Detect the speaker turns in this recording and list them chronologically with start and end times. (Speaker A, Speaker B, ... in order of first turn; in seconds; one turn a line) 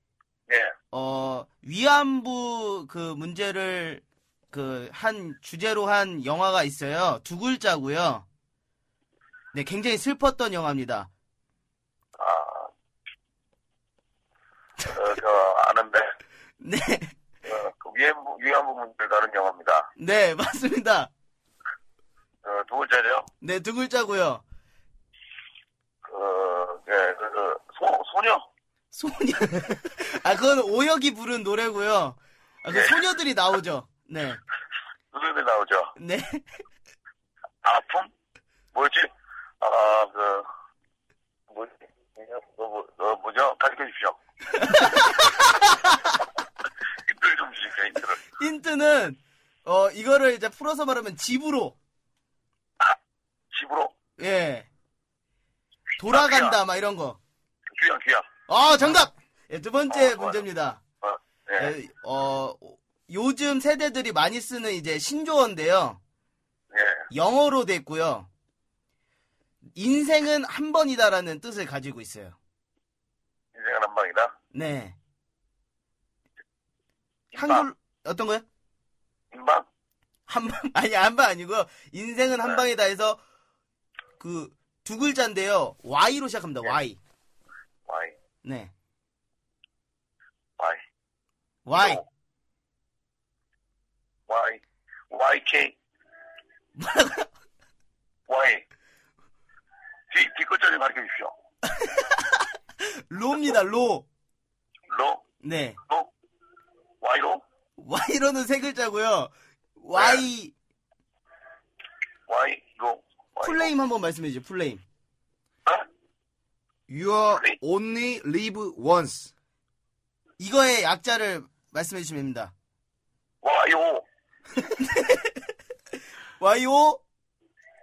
Speaker A: 0.5-0.7
Speaker B: 0.9-8.2
Speaker B: 9.5-11.1
Speaker A: 12.2-12.7
Speaker A: 14.9-16.1
Speaker B: 16.6-17.1
Speaker A: 17.4-19.9
Speaker B: 20.0-21.1
Speaker A: 22.4-23.3
Speaker B: 23.4-24.4
Speaker A: 26.1-28.4
Speaker B: 28.9-34.4
Speaker A: 35.1-35.9
Speaker B: 36.0-36.5
Speaker A: 37.6-38.1
Speaker A: 38.7-39.1
Speaker A: 39.6-40.5
Speaker A: 41.5-44.2
Speaker B: 44.5-46.1
Speaker A: 44.7-45.1
Speaker A: 47.1-48.2
Speaker B: 48.3-51.8
Speaker A: 53.5-53.9
Speaker B: 54.2-54.7
Speaker B: 56.0-57.2
Speaker A: 56.1-56.6
Speaker A: 57.7-58.3
Speaker B: 58.5-60.8
Speaker A: 59.9-60.4
Speaker A: 61.0-61.7
Speaker B: 61.6-66.0
Speaker A: 66.7-67.0
Speaker B: 67.1-68.3
Speaker B: 69.8-72.4
Speaker A: 73.5-74.3
Speaker B: 74.5-75.0
Speaker A: 77.3-77.7
Speaker B: 77.3-78.4
Speaker A: 79.3-79.7
Speaker B: 80.3-83.2
Speaker B: 84.2-87.0
Speaker A: 87.9-88.2
Speaker B: 88.4-88.7
Speaker B: 91.7-92.0
Speaker A: 91.8-92.0
Speaker A: 94.3-95.7
Speaker B: 96.8-97.3
Speaker A: 98.3-98.6
Speaker A: 100.1-101.3
Speaker B: 101.7-104.1
Speaker A: 104.9-105.2
Speaker B: 105.4-105.8
Speaker A: 107.0-107.4
Speaker B: 107.8-110.5
Speaker A: 110.0-110.2
Speaker A: 112.3-113.7
Speaker B: 113.4-114.8
Speaker C: 116.9-119.3
Speaker B: 120.4-122.5
Speaker A: 123.4-124.0
Speaker B: 124.6-125.4
Speaker B: 126.4-127.0